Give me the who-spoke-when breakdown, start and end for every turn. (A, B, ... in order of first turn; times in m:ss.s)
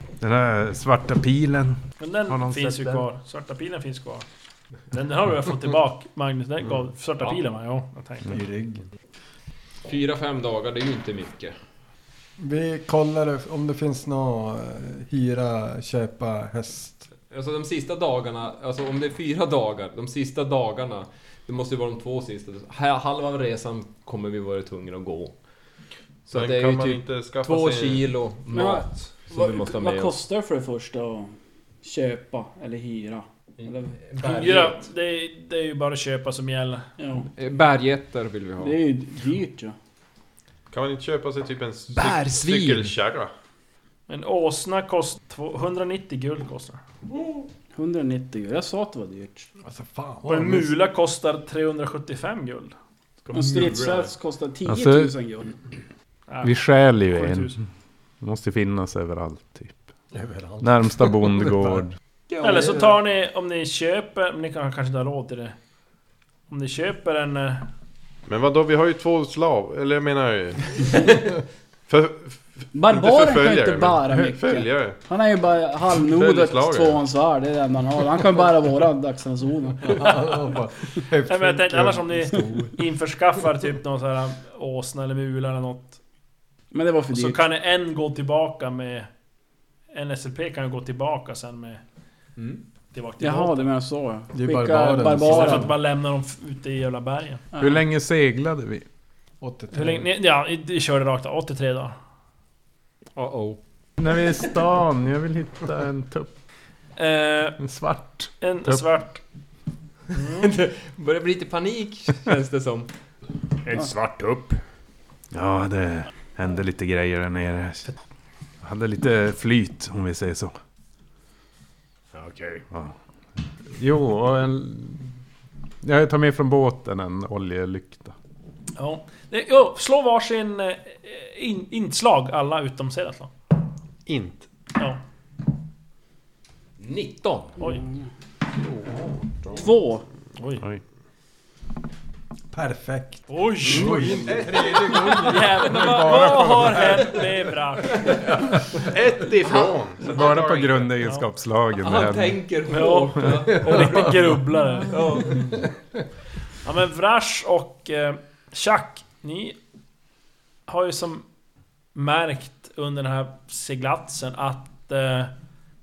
0:00.2-0:03.1 A
0:02.0-0:04.2 B
0:04.9-0:08.4 B
0:08.3-0:08.9 C
0:09.8-0:11.6 D
0:12.4-0:17.1 C
0:17.3-0:25.3 D
0:26.3-0:30.2 D
0:26.3-0:28.1 E
0:28.5-0:34.5 F
0:33.6-0:34.9 D
0:34.2-0:36.9 B
0:37.0-0:37.3 F
0:37.4-0:38.8 D
0:38.6-0:39.8 F
0:40.7-0:43.3 E
0:41.9-0:43.0 D
0:44.1-0:46.8 B
0:47.7-0:49.5 F
0:49.6-0:50.7 C
0:50.2-0:52.8 B
0:53.2-0:54.1 D
0:53.3-0:55.6 F
0:54.7-0:55.1 A
0:56.3-0:57.6 B
0:56.4-0:57.6 A
0:58.2-0:59.8 A
1:00.1-1:01.8 C
1:00.6-1:01.9 A
1:02.4-1:02.8 F
1:02.4-1:05.6 B
1:02.5-1:02.7 D
1:06.5-1:07.7 B
1:08.3-1:11.2 E
1:11.9-1:15.0 E
1:12.7-1:20.2 F
1:16.0-1:17.0 E
1:19.8-1:22.8 C
1:21.3-1:26.0 B
1:26.7-1:27.4 F
1:27.1-1:29.1 B
1:29.9-1:31.8 B
1:32.4-1:32.6 D
1:32.9-1:33.7 B
1:33.2-1:35.7 F
1:34.3-1:35.7 C
1:35.2-1:37.4 B
1:37.6-1:38.8 A
1:39.4-1:40.1 C
1:39.7-1:42.0 B
1:43.2-1:43.6 D
1:44.0-1:46.3 A
1:47.0-1:47.6 B
1:47.6-1:48.8 A
1:48.4-1:49.2 B
1:50.1-1:50.6 B
1:50.4-1:52.9 D
1:53.6-1:54.6 D
1:55.3-1:57.9 A
1:58.6-2:00.6 A
2:02.1-2:02.6 D
2:03.7-2:05.0 A
2:05.8-2:08.1 A
2:08.8-2:13.3 B
2:14.1-2:14.5 E
2:16.8-2:17.6 D
2:18.5-2:19.4 E
2:19.5-2:20.0 F
2:20.4-2:20.6 B
2:22.5-2:27.0 C
2:23.3-2:24.2 B
2:23.8-2:25.3 E
2:25.2-2:28.1 B
2:25.8-2:26.9 A
2:28.8-2:30.9 E
2:30.0-2:32.4 A
2:31.0-2:31.3 B
2:31.8-2:34.1 D
2:32.7-2:35.4 B
2:33.5-2:34.1 C
2:34.9-2:35.5 D
2:36.6-2:39.6 B
2:40.7-2:41.3 B
2:42.0-2:45.3 B